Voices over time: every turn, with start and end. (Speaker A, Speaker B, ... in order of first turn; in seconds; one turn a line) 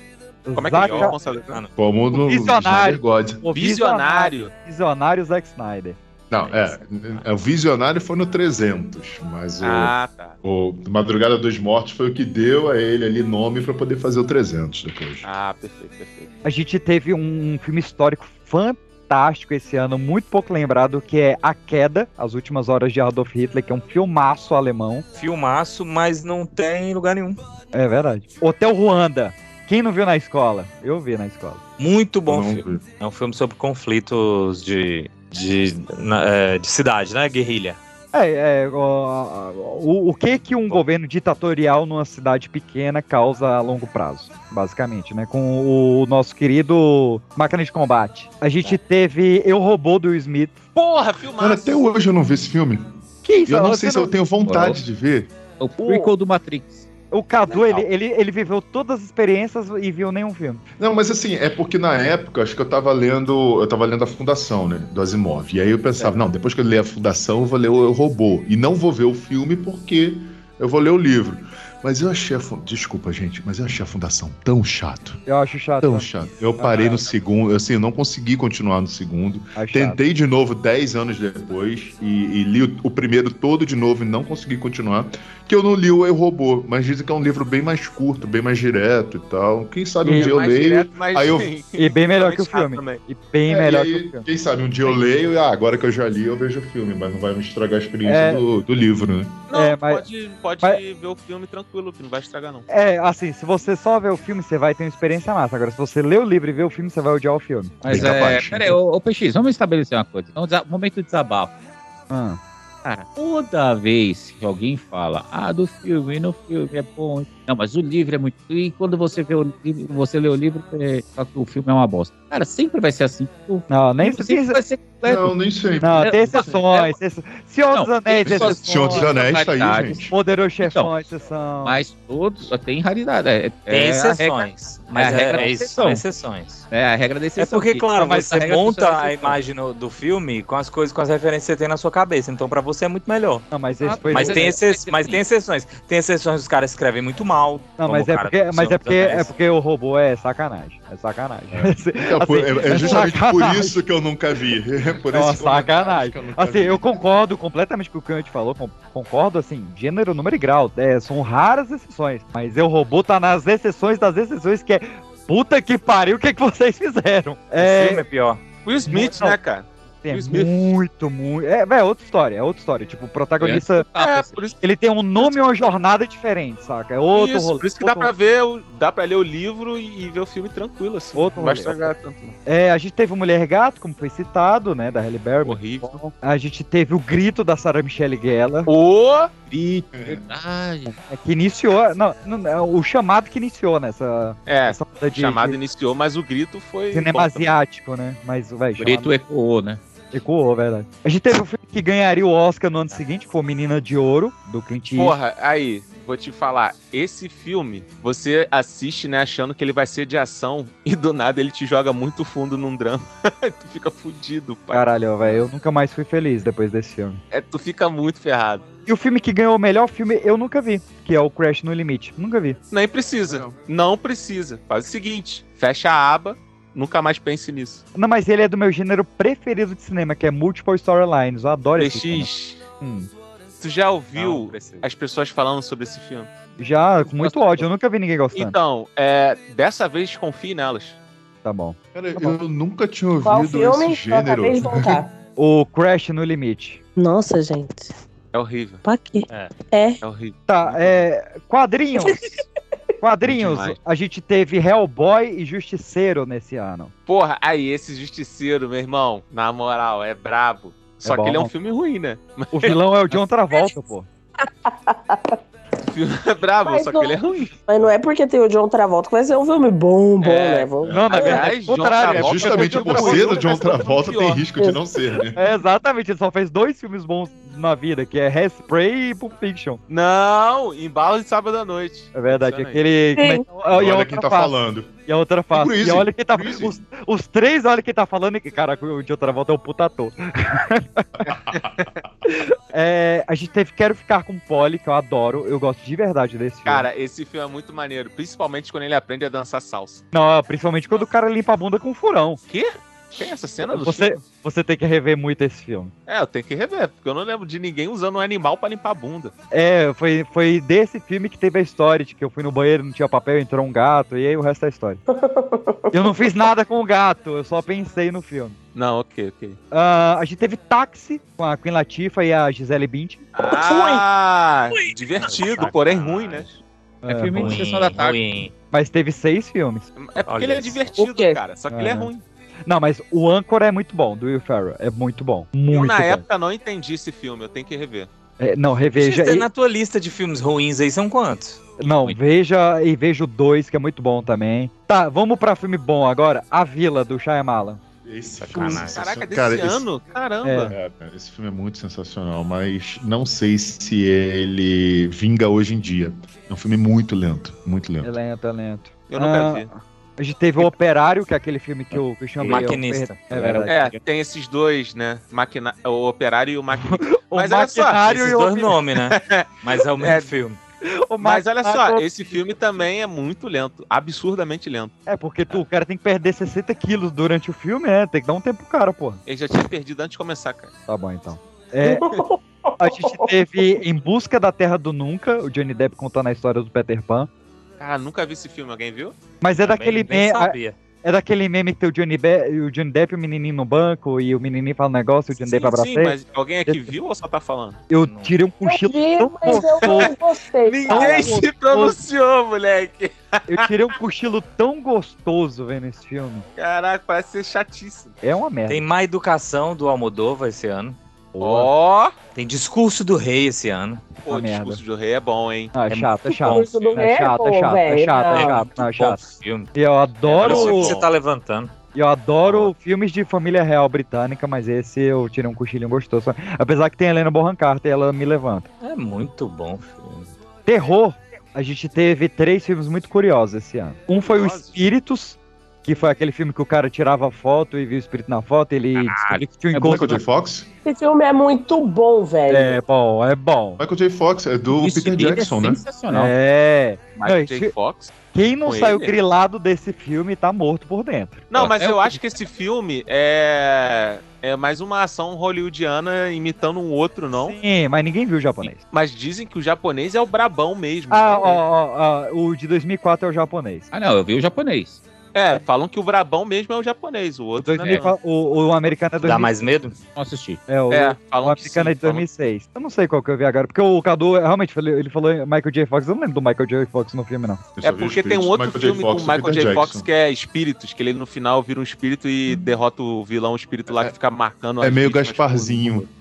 Speaker A: 0.5-1.2
Speaker B: 0.6-1.6
Speaker C: 0.9-1.7
Speaker D: 1.8-3.4
Speaker A: 2.1-6.0
Speaker B: 3.5-4.5
Speaker D: 6.3-15.3
Speaker B: 9.6-10.4
Speaker B: 15.2-16.3
Speaker A: 16.4-25.1
Speaker C: 25.1-27.4
Speaker A: 27.7-31.6
Speaker C: 31.8-37.8
Speaker D: 32.3-32.8
Speaker A: 38.1-50.6
Speaker B: 50.8-51.8
Speaker D: 51.4-52.9
Speaker A: 53.2-54.1
Speaker D: 53.5-55.3
Speaker E: 54.4-54.8
Speaker E: 55.6-56.9
Speaker A: 55.8-56.1
Speaker A: 57.1-60.6
Speaker B: 57.5-57.8
Speaker D: 60.8-75.2
Speaker A: 75.3-76.1
Speaker D: 75.8-91.5
Speaker B: 76.7-77.0
Speaker A: 79.6-80.0
Speaker A: 90.0-90.3
Speaker B: 90.1-93.0
Speaker A: 91.8-94.3
Speaker D: 93.5-99.5
Speaker A: 98.0-98.4
Speaker B: 99.5-102.7
Speaker A: 99.5-100.0
Speaker A: 102.7-107.8
Speaker E: 107.8-111.5
Speaker D: 107.9-108.8
Speaker A: 112.1-112.4
Speaker E: 112.8-125.3
Speaker A: 123.7-124.6
Speaker D: 125.0-126.5
Speaker A: 125.8-129.1
Speaker E: 126.0-127.0
Speaker E: 127.7-130.9
Speaker D: 128.2-130.1
Speaker A: 130.1-131.8
Speaker E: 131.6-136.1
Speaker C: 133.7-136.7
Speaker E: 136.7-139.4
Speaker C: 137.4-143.5
Speaker A: 143.5-144.6
Speaker E: 143.8-145.2
Speaker C: 144.1-149.3
Speaker A: 147.8-153.8
Speaker D: 151.5-157.0
Speaker A: 155.1-168.0
Speaker C: 167.6-168.4
Speaker B: 168.6-170.8
Speaker A: 168.9-169.4
Speaker A: 170.0-173.9
Speaker E: 173.4-174.4
Speaker B: 173.9-174.6
Speaker A: 174.6-178.1
Speaker B: 177.1-182.3
Speaker A: 181.2-181.9
Speaker A: 182.5-188.7
Speaker B: 185.4-186.1
Speaker B: 188.7-189.4
Speaker E: 189.5-191.0
Speaker D: 189.9-190.2
Speaker A: 191.1-195.6
Speaker B: 194.5-197.5
Speaker A: 196.9-199.1
Speaker E: 198.8-199.8
Speaker A: 200.1-205.2
Speaker B: 204.9-215.4
Speaker A: 214.7-217.2
Speaker B: 217.3-218.6
Speaker A: 218.9-222.6
Speaker B: 222.7-227.8
Speaker D: 223.3-223.6
Speaker A: 227.9-232.3
Speaker B: 231.8-232.6
Speaker A: 232.8-233.1
Speaker B: 233.6-236.3
Speaker C: 234.2-234.9
Speaker A: 236.6-238.6
Speaker E: 237.2-237.7
Speaker B: 238.3-241.0
Speaker A: 241.4-242.4
Speaker D: 241.9-245.0
Speaker F: 243.2-245.1
Speaker A: 245.4-246.8
Speaker F: 247.0-247.9
Speaker B: 248.3-248.8
Speaker F: 248.8-250.0
Speaker B: 250.0-251.0
Speaker A: 250.5-252.2
Speaker A: 253.0-256.9
Speaker B: 253.2-253.8
Speaker B: 257.1-263.2
Speaker A: 261.1-261.5
Speaker A: 262.5-264.1
Speaker F: 264.7-265.4
Speaker B: 265.9-267.5
Speaker F: 266.6-271.5
Speaker B: 270.2-274.5
Speaker D: 270.8-271.1
Speaker A: 270.9-273.4
Speaker D: 272.0-275.4
Speaker F: 274.6-275.0
Speaker A: 275.4-279.8
Speaker B: 279.9-282.8
Speaker A: 282.1-284.5
Speaker F: 283.1-283.4
Speaker D: 283.7-284.9
Speaker A: 285.1-291.1
Speaker D: 285.5-286.8
Speaker D: 291.3-291.9
Speaker B: 291.3-291.9
Speaker A: 292.3-296.9
Speaker B: 296.6-300.0
Speaker A: 300.1-302.4
Speaker B: 302.5-304.2
Speaker A: 303.7-305.9
Speaker B: 306.1-309.3
Speaker A: 309.5-315.0
Speaker F: 315.1-316.3
Speaker A: 315.9-318.6
Speaker B: 318.8-319.6
Speaker A: 319.7-323.3
Speaker B: 323.4-326.5
Speaker F: 323.6-324.0
Speaker C: 325.2-326.4
Speaker E: 325.3-326.4
Speaker A: 327.1-327.6
Speaker E: 327.1-328.2
Speaker C: 327.4-328.5
Speaker A: 328.7-329.9
Speaker B: 330.0-332.2
Speaker C: 330.3-330.9
Speaker F: 331.0-331.4
Speaker A: 331.7-332.1
Speaker A: 332.7-336.2
Speaker B: 335.7-338.1
Speaker A: 338.4-339.5
Speaker C: 339.0-342.2
Speaker A: 341.8-347.8
Speaker D: 348.1-349.9
Speaker C: 348.4-349.0
Speaker B: 348.8-350.8
Speaker A: 350.4-350.8
Speaker D: 350.7-358.2
Speaker A: 358.0-363.9
Speaker B: 359.1-359.7
Speaker C: 362.4-363.8
Speaker B: 363.7-368.0
Speaker A: 366.9-368.8
Speaker C: 368.0-370.6
Speaker B: 369.1-370.3
Speaker A: 370.9-372.4
Speaker B: 371.2-374.9
Speaker A: 375.1-379.2
Speaker B: 379.3-380.7
Speaker A: 380.9-382.1
Speaker F: 381.9-383.6
Speaker A: 382.8-387.3
Speaker B: 387.8-389.1
Speaker A: 389.4-396.9
Speaker C: 389.6-390.8
Speaker B: 395.4-397.8
Speaker A: 397.9-400.1
Speaker C: 398.0-398.4
Speaker F: 398.6-401.4
Speaker B: 399.8-403.7
Speaker A: 400.9-402.0
Speaker A: 403.5-406.5
Speaker B: 406.6-408.2
Speaker A: 408.2-408.9
Speaker C: 408.7-411.0
Speaker A: 411.4-411.7
Speaker B: 411.4-412.1
Speaker C: 412.4-414.0
Speaker B: 414.2-415.7
Speaker A: 414.3-414.8
Speaker A: 415.7-419.2
Speaker C: 415.9-416.6
Speaker F: 416.3-418.7
Speaker B: 416.7-417.0
Speaker C: 418.1-419.7
Speaker A: 419.8-421.0
Speaker B: 420.2-421.1
Speaker C: 420.4-421.7
Speaker A: 421.9-428.7
Speaker C: 422.4-422.7
Speaker C: 428.8-430.3
Speaker A: 430.7-440.2
Speaker B: 434.2-434.9
Speaker E: 439.0-440.2
Speaker D: 439.8-440.7
Speaker F: 440.9-442.8
Speaker A: 442.5-443.8
Speaker D: 443.8-445.8
Speaker E: 444.7-446.3
Speaker A: 446.1-447.7
Speaker B: 447.2-448.1
Speaker A: 448.3-451.4
Speaker B: 448.7-449.1
Speaker B: 451.5-457.6
Speaker E: 451.6-452.2
Speaker A: 457.3-458.8
Speaker B: 458.6-461.6
Speaker A: 461.1-463.9
Speaker E: 463.9-465.0
Speaker B: 465.3-468.1
Speaker A: 467.6-469.5
Speaker E: 467.8-468.1
Speaker C: 469.2-470.0
Speaker E: 470.1-470.6
Speaker A: 470.7-477.6
Speaker B: 470.9-472.2
Speaker D: 477.8-480.1
Speaker B: 477.8-486.1
Speaker D: 484.8-486.1